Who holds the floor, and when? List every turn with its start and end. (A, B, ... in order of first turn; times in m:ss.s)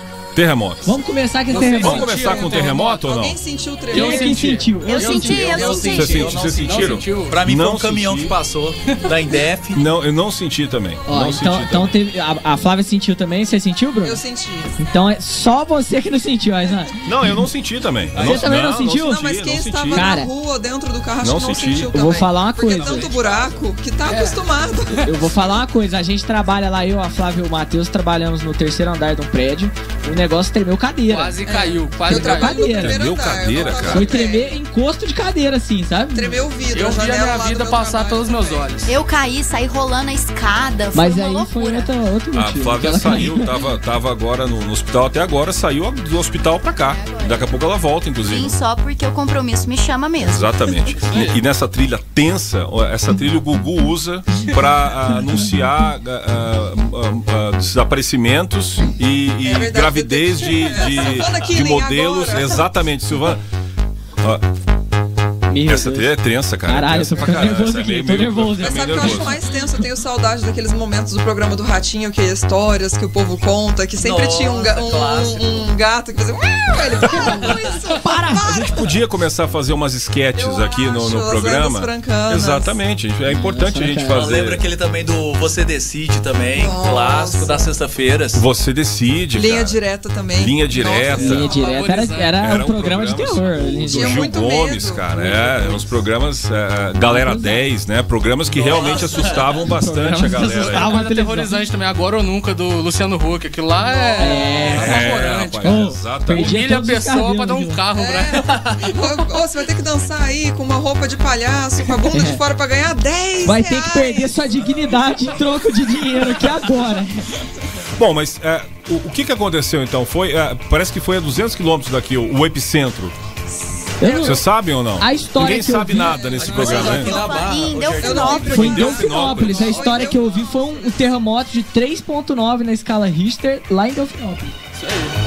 0:00.3-0:01.0 A
0:00.8-0:02.1 B
0:01.5-0:03.0 C
0:01.5-0:03.4 A
0:01.5-0:04.6 D
0:03.9-0:05.5 B
0:03.9-0:07.4 C
0:04.8-0:06.2 E
0:05.2-0:09.9 F
0:05.9-0:08.4 A
0:08.9-0:09.1 C
0:09.7-0:11.9 A
0:11.1-0:14.2 B
0:14.0-0:14.8 D
0:14.8-0:17.0 B
0:17.0-0:20.2 A
0:18.1-0:19.2 B
0:18.3-0:25.1 D
0:19.9-0:20.3 B
0:21.2-0:21.9 A
0:21.9-0:23.1 B
0:22.8-0:23.2 C
0:24.0-0:24.4 C
0:25.0-0:31.4 B
0:31.1-0:32.7 C
0:31.4-0:34.6 D
0:32.1-0:33.0 B
0:32.7-0:34.2 A
0:33.8-0:36.4 B
0:36.1-0:38.7 D
0:36.7-0:38.9 C
0:38.8-0:41.9 E
0:40.9-0:43.5 B
0:42.3-0:48.6 A
0:46.7-0:47.6 E
0:48.2-0:50.8 E
0:50.2-1:03.4 A
0:50.9-0:51.4 C
0:59.4-1:02.7 D
1:04.2-1:04.4 A
1:05.5-1:06.1 B
1:05.6-1:09.4 A
1:06.7-1:09.3 B
1:08.6-1:18.8 D
1:14.0-1:15.6 F
1:17.2-1:17.5 A
1:17.2-1:18.6 B
1:18.4-1:24.6 A
1:20.4-1:22.8 D
1:23.2-1:24.2 B
1:24.1-1:28.4 F
1:26.5-1:27.7 D
1:28.3-1:29.8 A
1:29.3-1:31.5 D
1:30.4-1:31.5 A
1:31.1-1:32.3 C
1:31.2-1:34.2 B
1:32.4-1:40.9 A
1:33.8-1:35.7 D
1:37.0-1:37.7 B
1:38.6-1:39.5 F
1:39.6-1:41.6 B
1:40.5-1:49.3 C
1:44.1-1:44.6 D
1:44.2-1:45.1 B
1:44.7-1:46.5 A
1:45.6-1:47.8 B
1:47.9-1:54.6 D
1:52.1-1:52.4 B
1:53.4-1:57.3 B
1:58.0-2:03.1 A
2:04.0-2:04.4 B
2:04.0-2:04.3 D
2:04.2-2:07.2 A
2:05.0-2:06.2 B
2:05.9-2:07.4 D
2:06.3-2:08.5 F
2:06.7-2:08.7 E
2:08.0-2:11.1 D
2:08.4-2:14.5 B
2:08.5-2:10.0 A
2:14.7-2:15.1 C